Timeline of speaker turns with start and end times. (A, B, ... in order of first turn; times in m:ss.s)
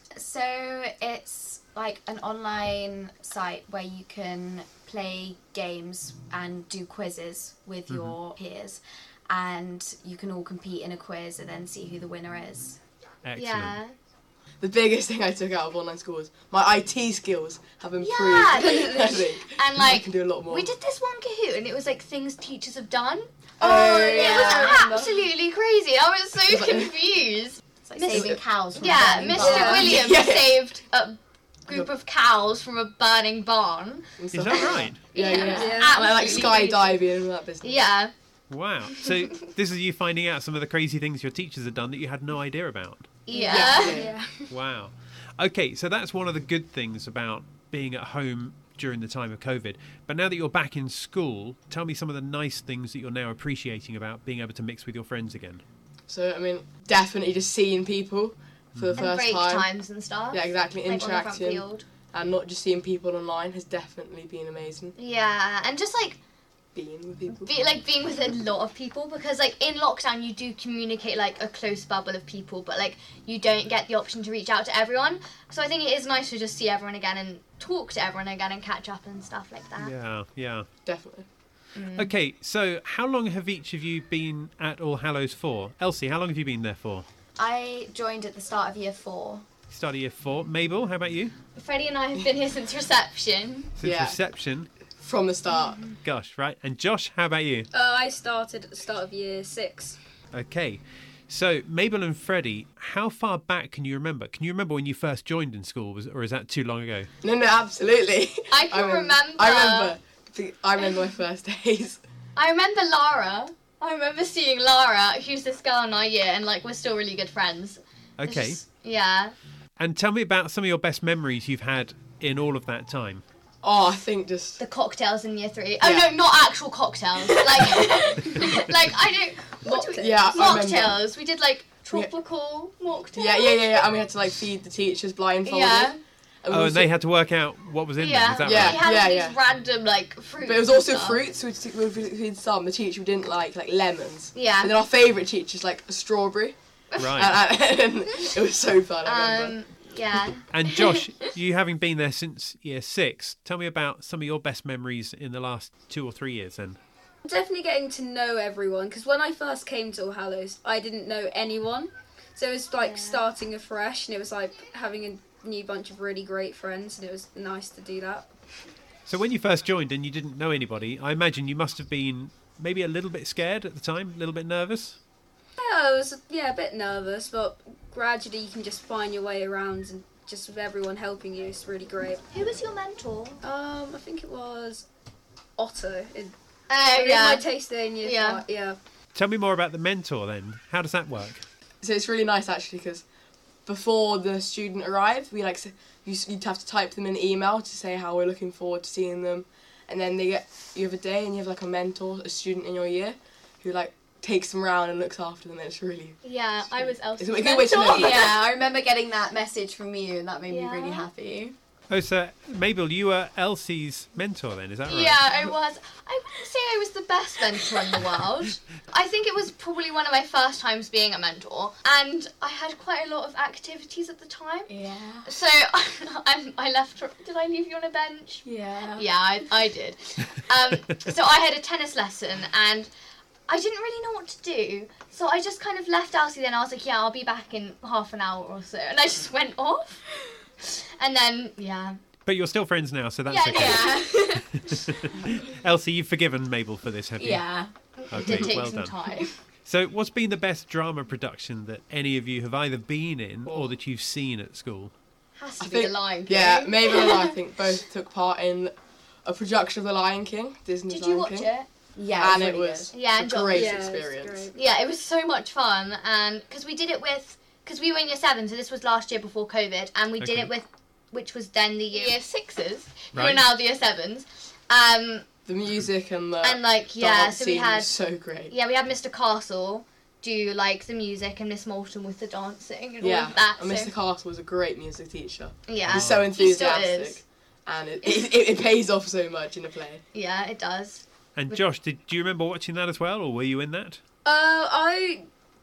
0:00.2-0:12.8 A
0:07.9-0:08.1 B
0:13.2-0:13.8 B
0:13.4-0:13.9 C
0:14.6-0:20.7 D
0:18.0-0:37.0 C
0:18.6-0:19.2 E
0:23.6-0:24.7 D
0:23.6-0:25.1 A
0:24.2-0:25.0 E
0:26.4-0:26.9 D
0:27.8-0:29.9 A
0:28.1-0:28.6 D
0:29.4-0:29.9 E
0:29.7-0:30.6 D
0:34.2-0:37.8 D
0:34.3-0:35.0 B
0:35.3-0:36.0 E
0:37.6-0:38.1 C
0:38.5-0:43.1 B
0:43.3-0:44.1 C
0:43.3-0:44.5 E
0:43.4-0:44.1 D
0:44.5-0:55.6 B
0:56.1-0:59.7 D
0:58.7-0:59.1 B
0:59.0-1:01.9 C
1:00.3-1:04.9 D
1:05.0-1:06.2 C
1:06.7-1:07.5 D
1:07.3-1:19.9 C
1:19.8-1:20.7 B
1:20.8-1:21.2 D
1:21.7-1:22.1 C
1:21.9-1:27.0 B
1:27.4-1:29.4 A
1:29.7-1:31.3 B
1:31.5-1:33.8 C
1:33.8-1:34.7 B
1:33.8-1:34.2 D
1:35.0-1:35.8 D
1:35.9-1:37.7 B
1:37.7-1:40.0 E
1:40.3-1:47.1 B
1:47.2-1:52.0 D
1:48.5-1:50.0 C
1:52.4-1:59.3 C
1:58.2-1:58.6 B
1:59.8-2:03.2 B
2:03.6-2:04.6 D
2:04.6-2:13.9 C
2:05.8-2:06.1 D
2:09.6-2:10.5 E
2:09.7-2:10.8 A
2:09.9-2:11.0 D
2:11.8-2:12.1 D
2:13.1-2:16.9 D
2:15.4-2:16.0 C
2:16.5-2:18.8 B
2:18.0-2:21.2 C
2:18.4-2:19.4 D
2:20.4-2:26.5 D
2:24.3-2:24.7 C
2:27.0-2:27.3 B
2:27.1-2:29.6 D
2:29.0-2:31.0 C
2:30.5-2:36.8 B
2:37.2-2:48.6 E
2:42.8-2:43.2 C
2:49.0-2:55.0 B
2:55.6-3:02.2 E
3:02.3-3:03.4 C
3:03.4-3:04.9 E
3:05.6-3:06.3 E
3:06.7-3:07.4 C
3:06.9-3:08.8 E
3:08.0-3:08.4 C
3:09.1-3:11.4 B
3:11.8-3:13.0 D
3:13.6-3:28.3 D
3:26.2-3:28.4 C
3:27.8-3:31.5 A
3:30.5-3:31.1 C
3:31.9-3:35.2 B
3:34.9-3:44.7 C
3:44.7-3:45.3 A
3:45.2-3:52.9 C
3:48.4-3:49.0 A
3:53.5-4:02.0 C
4:02.2-4:07.4 B
4:03.2-4:04.6 C
4:03.5-4:04.1 A
4:07.2-4:07.7 A
4:07.9-4:09.3 C
4:08.1-4:09.0 B
4:09.6-4:14.9 B
4:13.4-4:13.7 D
4:15.4-4:17.4 C
4:15.6-4:18.7 D
4:19.2-4:21.5 D
4:20.9-4:21.7 C
4:21.9-4:22.9 A
4:22.2-4:24.4 D
4:22.9-4:23.7 C
4:23.5-4:24.6 E
4:24.4-4:35.3 C
4:30.2-4:30.5 B
4:33.1-4:33.5 B
4:35.4-4:38.5 D
4:36.4-4:37.9 C
4:38.5-4:43.9 C
4:43.0-4:50.0 D
4:45.7-4:47.2 C
4:45.9-4:46.3 B
4:50.1-4:51.6 C
4:51.4-4:54.0 B
4:54.2-4:55.3 E